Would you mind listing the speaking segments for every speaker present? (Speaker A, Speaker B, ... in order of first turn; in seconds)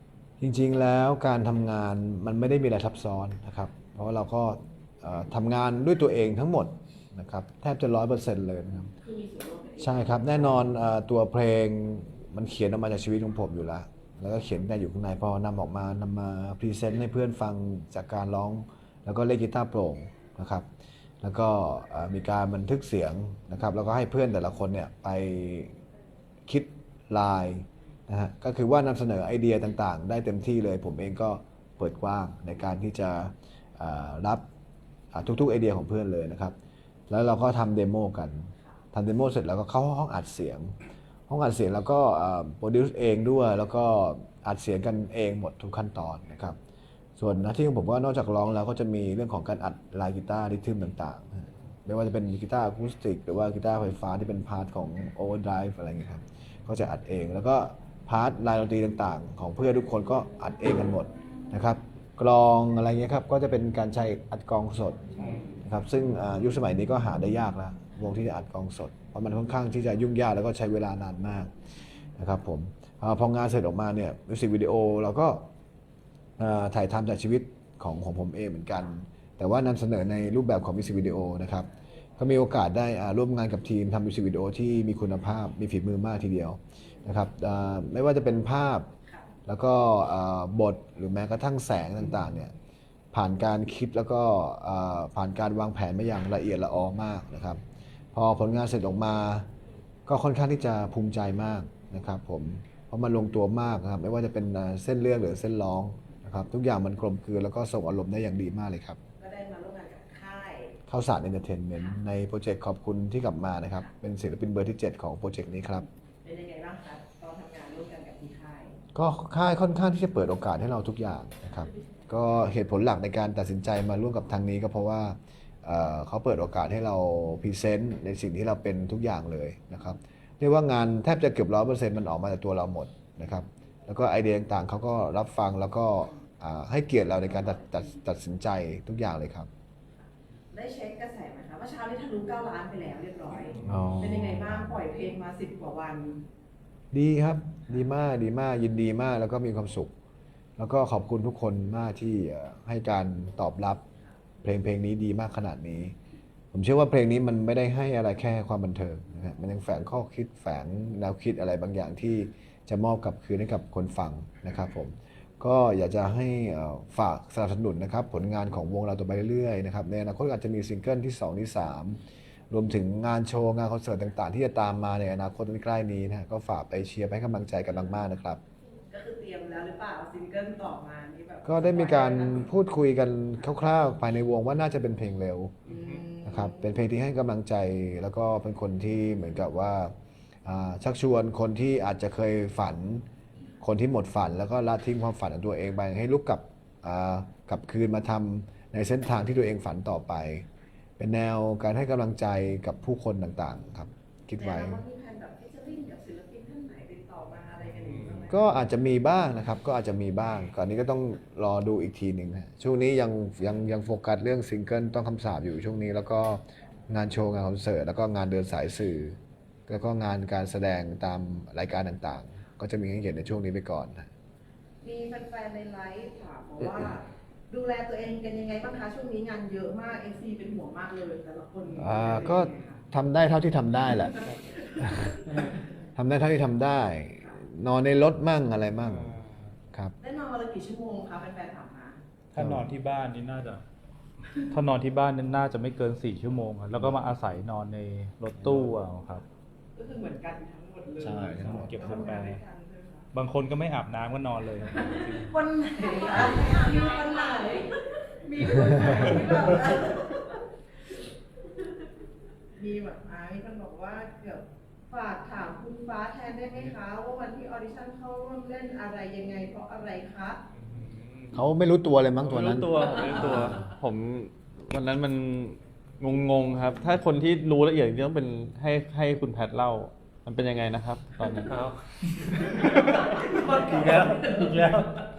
Speaker A: 0.4-8.9, 9.8-20.7, 21.2-25.8, 26.5-34.5, 35.1-36.5, 37.1-40.8, 41.3-46.6, 47.2-71.5, 72.2-75.5, 76.4-88.9, 89.5-92.5, 93.1-97.6, 98.1-99.5, 100.1-109.0, 110.9-115.9, 118.9-139.5, 143.6-144.7, 146.9-149.9, 150.6-153.8, 154.4-155.9, 156.5-178.4, 181.4-185.6, 186.2-189.9, 190.4-193.1, 193.6-200.5, 201.0-204.8, 208.3-224.1, 231.8-234.2, 234.8-235.2, 236.0-239.1, 242.4-242.7, 248.4-248.7, 251.0-252.0, 271.3-272.7
Speaker B: 9.0-10.6, 109.2-110.8, 116.2-118.8, 121.6-122.1, 140.0-146.2, 178.9-182.5, 185.7-186.6, 204.4-208.4, 224.8-232.8, 234.1-235.4, 240.0-242.0, 249.8-253.1, 254.7-260.4, 262.6-270.4, 282.4-284.9
Speaker C: 238.9-239.5, 270.6-271.4, 272.2-281.6, 283.9-284.2
Speaker D: 242.3-243.6, 244.4-249.2, 251.4-252.4, 253.1-255.3